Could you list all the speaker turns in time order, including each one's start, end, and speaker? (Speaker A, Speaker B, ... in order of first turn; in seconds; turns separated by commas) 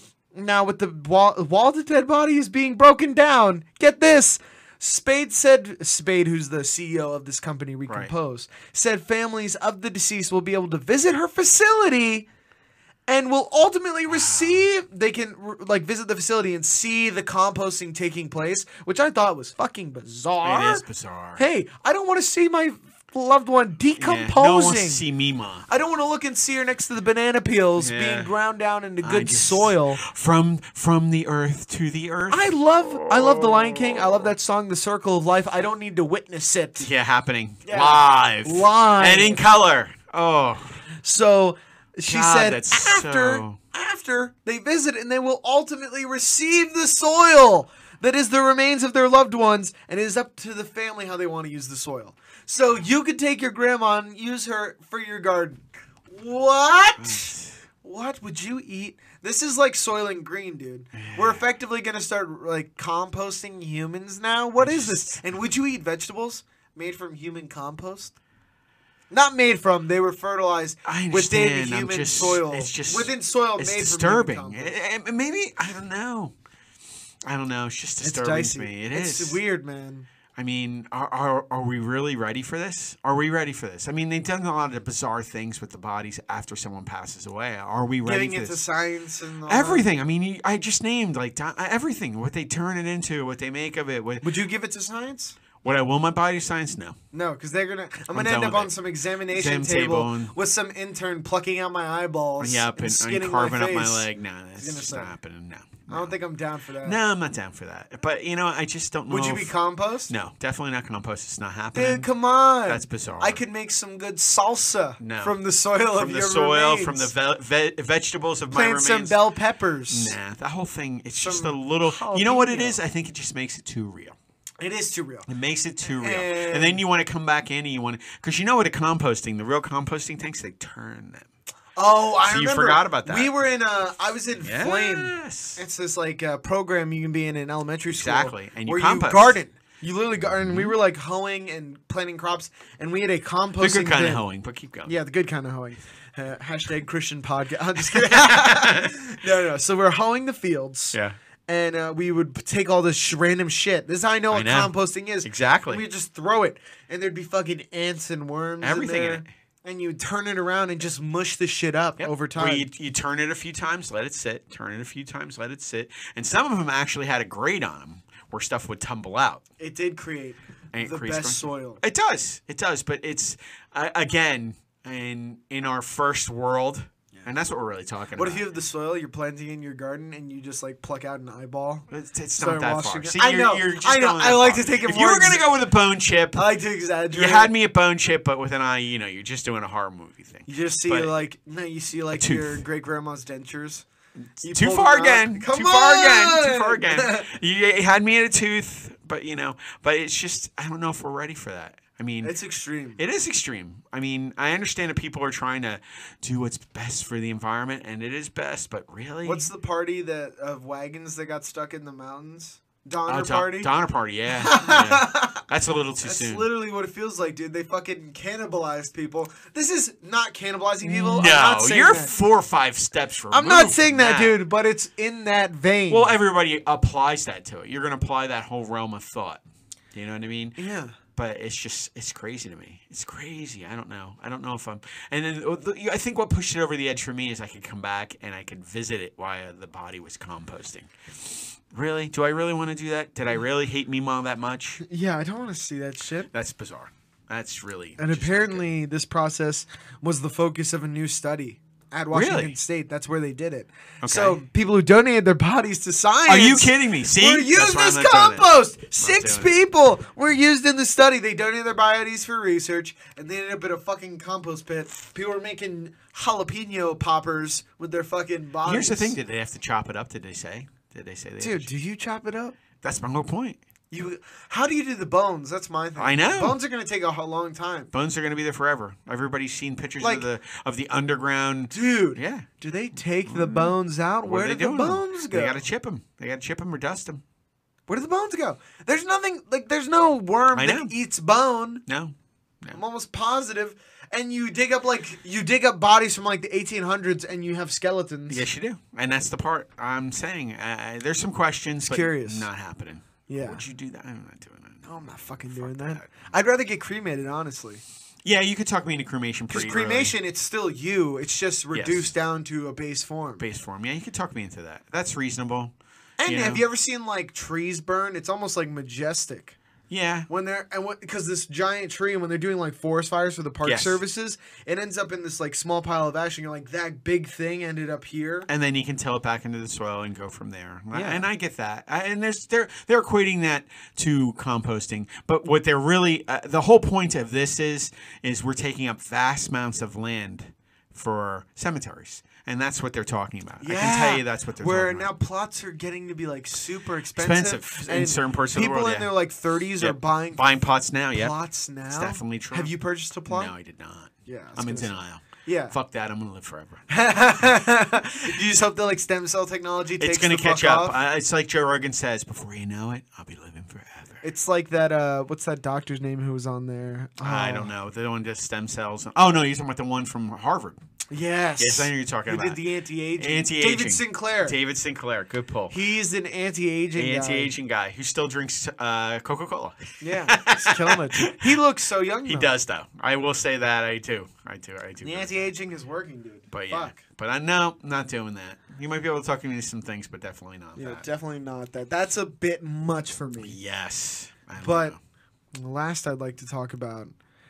Speaker A: 0.3-12.2, Speaker B: 7.9-8.1, Speaker A: 13.1-20.8, Speaker B: 14.1-14.7, Speaker B: 20.4-21.4, Speaker A: 21.4-25.0, Speaker B: 24.0-25.6, Speaker A: 25.7-30.0, Speaker B: 27.8-28.3, Speaker B: 29.0-34.3, Speaker A: 32.3-36.9, Speaker B: 36.8-40.8, Speaker A: 37.6-39.4, Speaker A: 41.0-68.1, Speaker B: 42.1-43.6, Speaker B: 57.0-57.6, Speaker B: 60.9-61.4, Speaker B: 64.6-65.2, Speaker A: 69.1-74.8, Speaker B: 70.8-76.3, Speaker B: 77.2-79.4, Speaker A: 78.0-80.1, Speaker B: 80.3-88.6, Speaker A: 88.0-89.8, Speaker B: 89.5-94.2, Speaker A: 94.2-95.3, Speaker B: 95.6-97.0, Speaker A: 97.1-105.1, Speaker B: 98.1-98.8, Speaker B: 99.3-100.3, Speaker B: 102.4-106.1, Speaker A: 105.9-107.0, Speaker B: 106.8-109.5, Speaker A: 109.1-110.1, Speaker B: 110.1-112.1, Speaker A: 111.7-117.1, Speaker B: 112.7-113.4, Speaker B: 115.0-115.4, Speaker B: 115.9-119.2, Speaker A: 118.5-120.2, Speaker B: 119.9-124.2, Speaker A: 121.2-122.8, Speaker A: 124.6-125.3, Speaker B: 125.3-131.3, Speaker A: 125.9-126.8, Speaker A: 131.8-144.2, Speaker B: 132.2-133.3, Speaker B: 134.4-135.6, Speaker B: 137.9-139.4, Speaker B: 140.2-140.7, Speaker B: 143.6-144.9, Speaker A: 144.8-151.0, Speaker B: 147.8-149.1, Speaker A: 151.5-162.7, Speaker B: 154.3-154.7, Speaker B: 155.2-155.8, Speaker B: 158.6-159.3, Speaker B: 162.0-169.4, Speaker A: 169.6-171.8, Speaker B: 170.7-178.4, Speaker A: 178.2-185.5, Speaker B: 181.9-186.4, Speaker A: 186.3-187.5, Speaker B: 187.1-191.1, Speaker A: 190.5-193.8, Speaker B: 192.1-192.6, Speaker B: 194.4-202.3, Speaker A: 194.4-197.3, Speaker A: 202.2-203.0, Speaker B: 203.0-209.5, Speaker A: 209.2-213.7, Speaker B: 213.1-216.5, Speaker A: 214.3-215.4, Speaker A: 216.0-222.1, Speaker B: 220.8-224.4, Speaker A: 223.3-226.1, Speaker B: 225.9-229.4, Speaker B: 229.9-230.6, Speaker A: 230.6-230.9, Speaker B: 231.1-244.8, Speaker A: 244.8-246.3, Speaker B: 246.3-248.6, Speaker A: 248.0-269.2, Speaker B: 252.1-252.5, Speaker B: 254.0-254.4, Speaker B: 256.3-259.6, Speaker B: 268.6-271.7, Speaker A: 271.4-272.6, Speaker B: 272.8-273.6, Speaker A: 273.9-277.9, Speaker B: 276.0-276.6, Speaker B: 277.9-282.5, Speaker A: 280.0-280.3, Speaker A: 281.7-285.6, Speaker B: 283.2-287.2, Speaker A: 287.9-291.8, Speaker B: 290.5-290.9, Speaker B: 291.9-292.8, Speaker A: 292.7-298.4, Speaker B: 298.3-304.9, Speaker A: 301.9-302.5, Speaker A: 303.3-303.6, Speaker A: 304.8-307.8, Speaker B: 305.5-306.2, Speaker B: 308.2-310.1, Speaker A: 309.5-313.4, Speaker B: 311.7-312.1, Speaker B: 313.4-315.7, Speaker A: 316.2-319.6, Speaker B: 316.2-316.6, Speaker B: 319.9-320.3, Speaker A: 320.3-328.5, Speaker B: 323.6-324.0, Speaker B: 328.5-345.1, Speaker A: 330.9-331.2, Speaker A: 343.6-350.4, Speaker B: 347.1-349.1, Speaker B: 349.8-351.3, Speaker A: 351.1-353.5, Speaker B: 351.9-352.7, Speaker B: 353.3-356.8, Speaker A: 354.2-355.7, Speaker A: 356.9-361.0, Speaker B: 360.0-364.2, Speaker A: 364.2-367.7, Speaker B: 367.2-370.8, Speaker A: 371.1-374.6, Speaker B: 371.6-372.6, Speaker B: 373.2-375.8, Speaker A: 375.7-377.5, Speaker B: 376.9-381.6, Speaker A: 380.0-382.5, Speaker B: 382.2-385.5, Speaker A: 385.0-386.9, Speaker B: 386.5-391.1, Speaker A: 390.8-393.6, Speaker B: 393.4-395.0, Speaker A: 394.6-394.9, Speaker A: 395.5-397.1